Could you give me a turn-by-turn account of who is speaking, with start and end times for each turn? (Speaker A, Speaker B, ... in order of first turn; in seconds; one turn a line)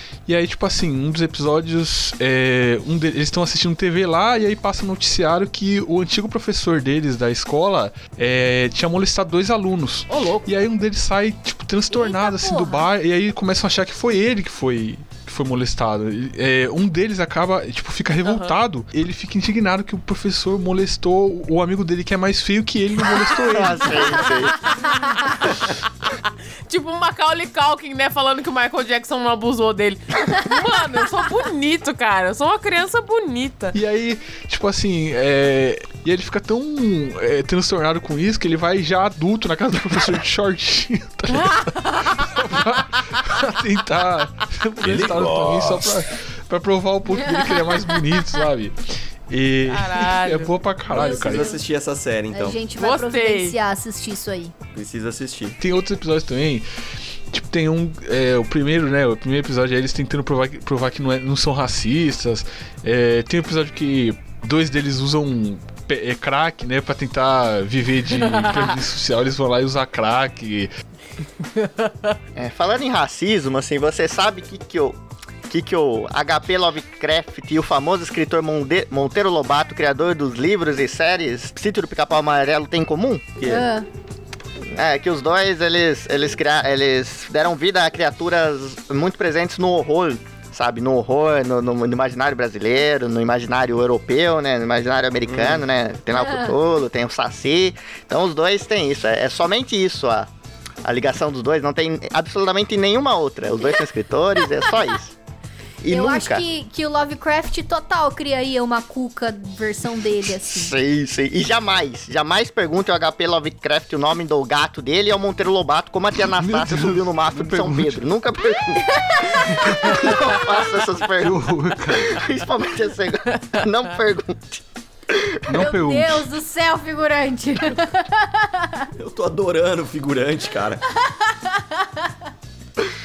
Speaker A: 0.2-24.2
Speaker B: 10.1-10.5
Speaker C: 11.9-12.8
Speaker B: 18.2-18.5
Speaker D: 23.4-24.6
Speaker B: 24.7-33.8
Speaker C: 25.0-25.3
Speaker A: 33.7-48.8
Speaker B: 41.3-42.6
Speaker E: 44.8-46.0
Speaker C: 47.1-48.1
Speaker A: 49.3-51.5
Speaker B: 49.7-50.5
Speaker C: 50.9-51.6
Speaker E: 50.9-52.6
Speaker C: 52.3-54.5
Speaker B: 52.8-53.6
Speaker E: 54.7-55.6
Speaker A: 55.6-56.6
Speaker A: 57.3-70.7
Speaker B: 71.4-72.2
Speaker D: 72.3-83.2
Speaker E: 83.4-83.7
Speaker C: 83.4-83.9
Speaker D: 84.7-100.3
Speaker E: 95.2-95.6
Speaker C: 96.1-96.5
Speaker D: 100.8-105.1
Speaker D: 105.8-106.4
Speaker C: 105.9-110.7
Speaker D: 110.2-125.6
Speaker A: 116.3-118.0
Speaker C: 119.0-120.1
Speaker A: 119.6-120.1
Speaker A: 121.2-122.2
Speaker A: 125.5-126.3
Speaker C: 125.5-128.9
Speaker E: 129.0-130.8
Speaker C: 131.1-132.1